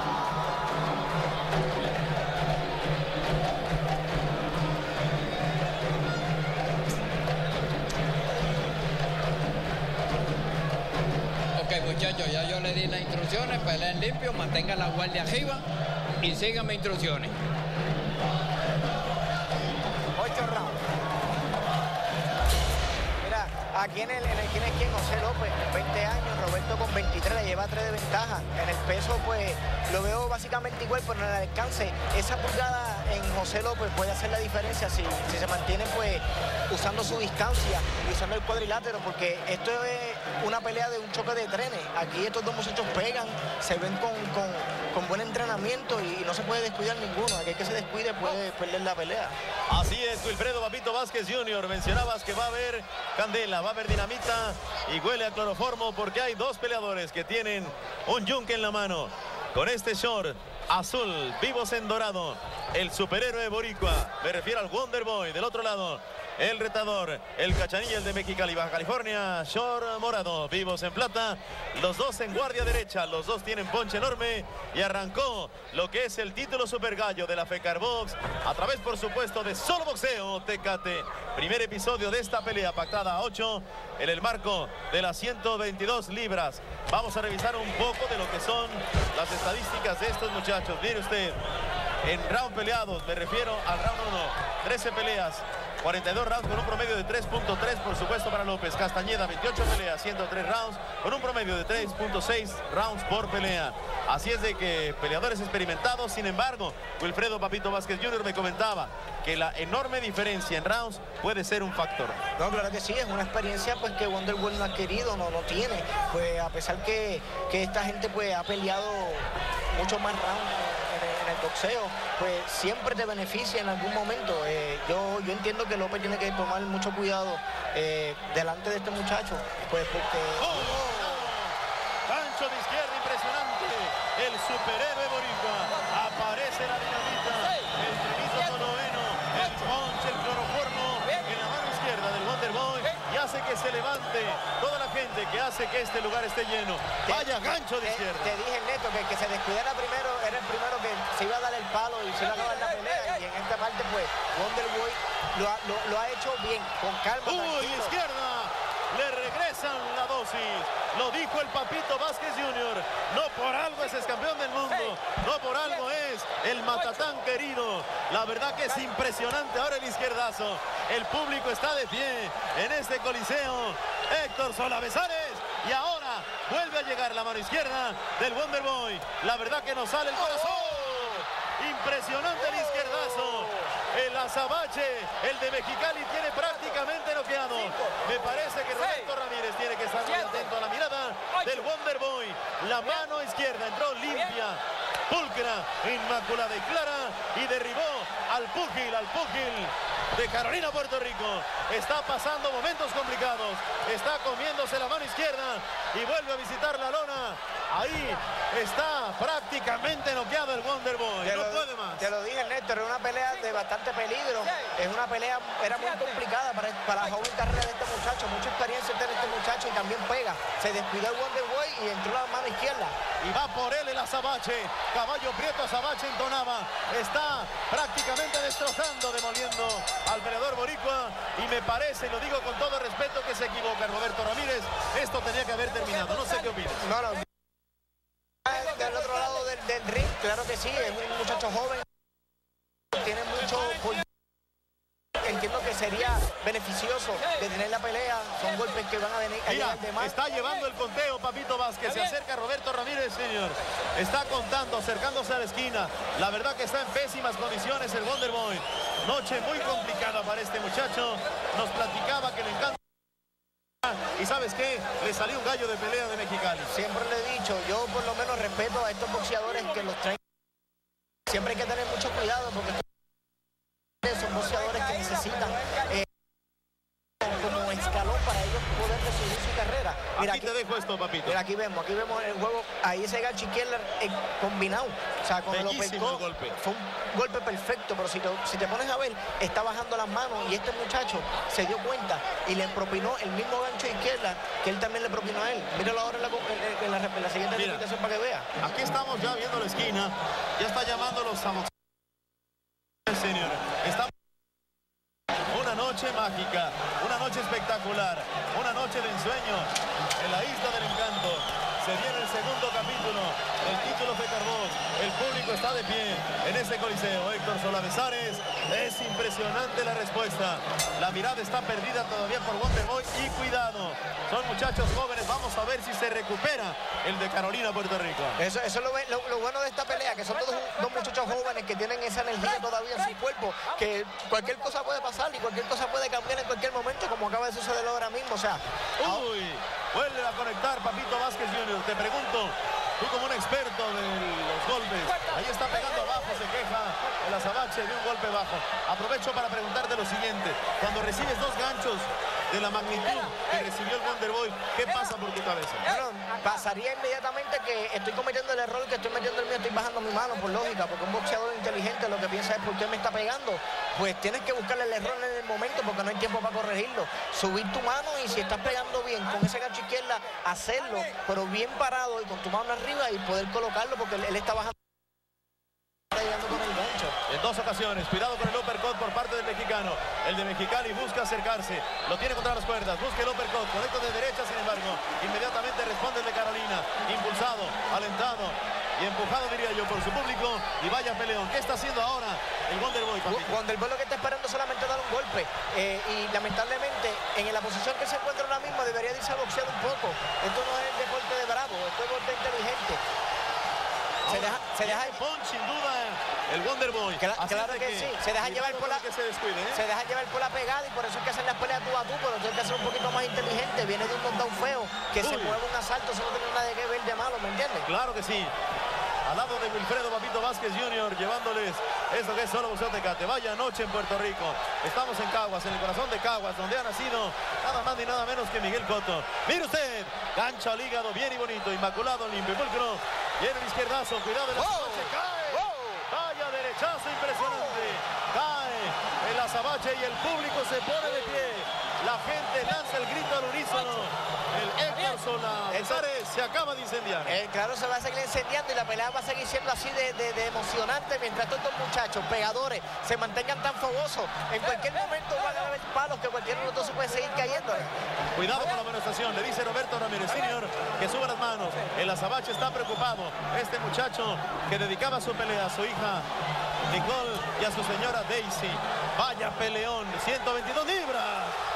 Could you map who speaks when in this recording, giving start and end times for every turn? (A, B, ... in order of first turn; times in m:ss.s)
0:11.6-0:15.6 A
0:16.2-0:17.4 A
0:20.1-0:20.8 B
0:23.2-0:49.3 B
0:49.7-1:31.4 C
1:32.0-1:52.2 C
1:52.4-2:11.3 B
2:10.4-2:11.6 C
2:12.1-2:28.4 C
2:27.0-2:37.9 B
2:37.2-3:32.0 C
3:31.2-3:43.0 B
3:43.2-3:56.8 C
3:56.8-3:57.3 B
3:58.4-4:01.9 B
4:02.9-4:04.0 B
4:05.2-4:10.1 B
4:09.5-4:22.8 C
4:23.8-4:26.7 C
4:26.7-4:30.2 B
4:31.2-4:32.9 B
4:34.0-4:36.1 B
4:37.2-4:40.5 B
4:40.2-4:41.4 C
4:41.2-4:58.5 B
4:45.5-4:46.6 C
4:57.5-4:57.8 C
4:58.6-5:01.7 C
5:03.1-5:04.1 C
5:05.5-5:28.4 C
5:28.4-5:39.2 B
5:39.0-5:55.9 C
5:55.8-6:14.8 B
6:16.1-6:17.2 B
6:17.3-6:33.6 C
6:33.3-6:43.0 B
6:44.2-6:49.8 C
6:44.3-6:45.2 B
6:47.2-6:49.0 B
6:49.7-6:57.9 B
6:55.2-6:55.6 C
6:57.8-6:58.5 C
6:59.2-7:27.4 C
7:25.7-7:26.0 B
7:27.2-7:37.9 B
7:38.3-7:46.3 C
7:46.9-7:51.6 C